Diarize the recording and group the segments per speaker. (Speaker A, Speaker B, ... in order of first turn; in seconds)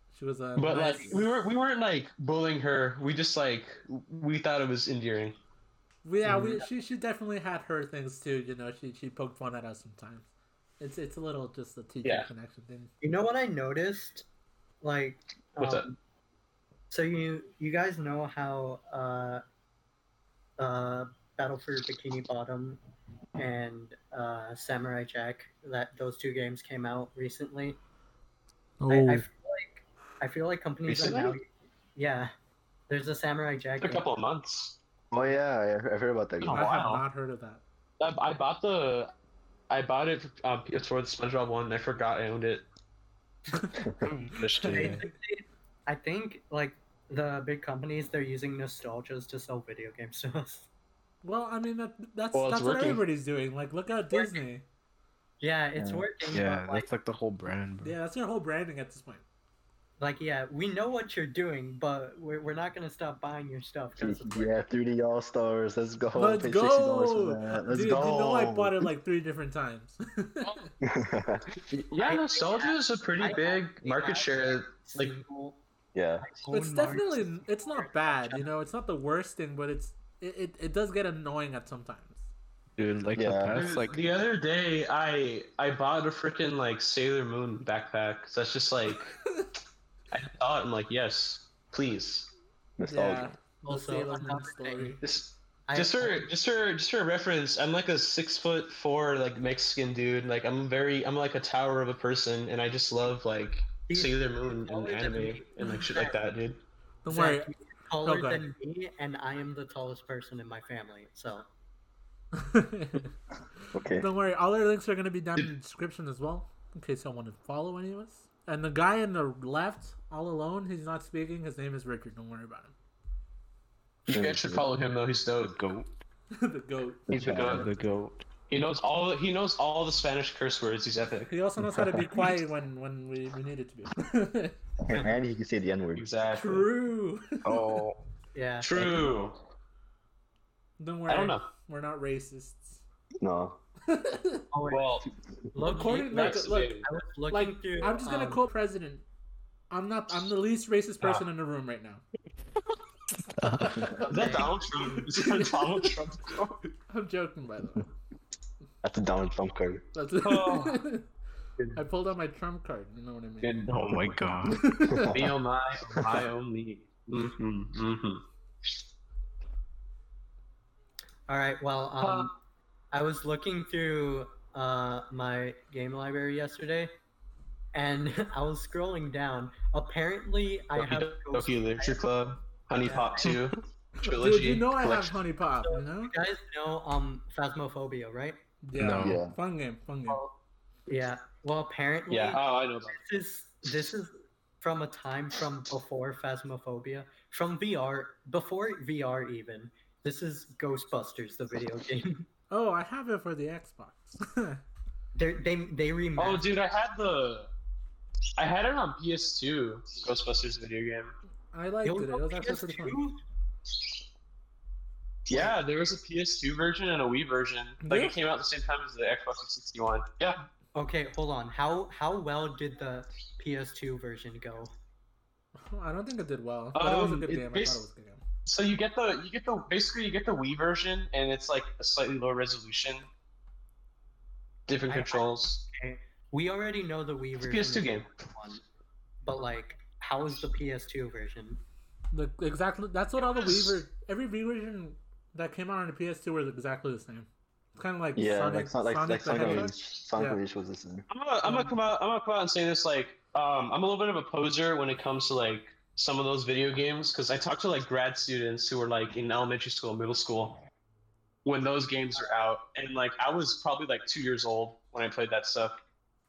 Speaker A: 0.1-1.3, 6.0-10.3, 10.8-12.9, 28.8-29.2, 36.5-37.6, 43.5-43.8, 44.5-45.1, 51.2-54.6, 57.8-59.2, 66.1-70.7, 76.5-82.3, 92.8-95.0, 107.0-107.5, 108.0-108.4, 112.3-113.1, 113.9-122.7, 126.3-127.5, 131.3-134.6, 136.3-137.8, 140.8-142.8, 143.9-144.4, 145.6-149.0, 149.7-152.0, 153.6-154.1, 154.8-155.6, 156.9-157.9, 159.9-161.1, 161.7-163.6, 164.5-165.1, 184.0-186.1, 188.6-190.2, 202.5-204.6, 211.5-213.0, 217.8-218.1, 225.5-228.2, 242.1-250.4
Speaker B: 0.6-5.3, 15.6-15.9, 30.9-31.4, 33.8-34.8, 36.4-37.0, 38.0-39.1, 39.7-42.6, 52.3-53.0, 70.4-70.7, 71.7-75.1, 83.5-89.2, 90.1-92.3, 95.0-106.6, 124.1-125.5, 127.1-127.7, 128.5-131.3, 135.9-136.7, 138.6-139.3, 141.1-141.5, 144.7-145.1, 145.7-146.9, 154.1-156.6, 160.2-160.8, 163.4-164.2, 165.1-168.2, 172.0-172.3, 180.8-185.1, 192.1-193.0, 206.2-207.5, 208.4-211.1, 215.3-220.4, 226.7-227.8, 228.4-233.1, 234.7-235.6, 237.4-238.1, 243.2-243.8, 249.3-249.6, 251.1-260.6, 261.4-265.7
Speaker C: 6.3-6.6, 44.0-45.0, 56.3-58.0, 82.8-84.0, 125.4-125.9, 127.3-128.2, 137.4-138.0, 153.4-154.0, 163.7-165.0, 188.8-189.2
Speaker D: 13.0-14.2, 14.8-16.0, 16.9-19.4, 20.6-22.8, 23.4-27.8, 28.9-32.3, 32.9-34.0, 44.7-50.7, 54.1-54.4, 55.4-56.9, 60.0-64.6, 72.0-75.6, 76.2-78.5, 93.7-95.0, 95.7-96.3, 103.9-106.2, 107.1-111.5, 138.3-139.2, 144.5-144.8, 145.5-148.4, 154.1-154.5, 171.3-172.3, 172.9-176.9, 177.7-182.0, 182.8-183.4, 185.6-188.4, 190.9-202.2, 205.1-206.5, 211.8-213.2, 215.3-215.5, 220.7-224.7, 234.9-238.6, 239.2-241.6
Speaker E: 35.1-36.6, 55.8-56.1, 64.0-68.8, 70.8-71.6, 75.9-76.2, 83.1-83.6, 92.8-93.3, 113.7-114.1, 124.1-124.7, 127.1-127.7, 134.8-136.1, 143.2-143.6, 158.8-159.8, 164.9-165.3, 165.9-166.2, 189.0-189.3, 248.2-251.0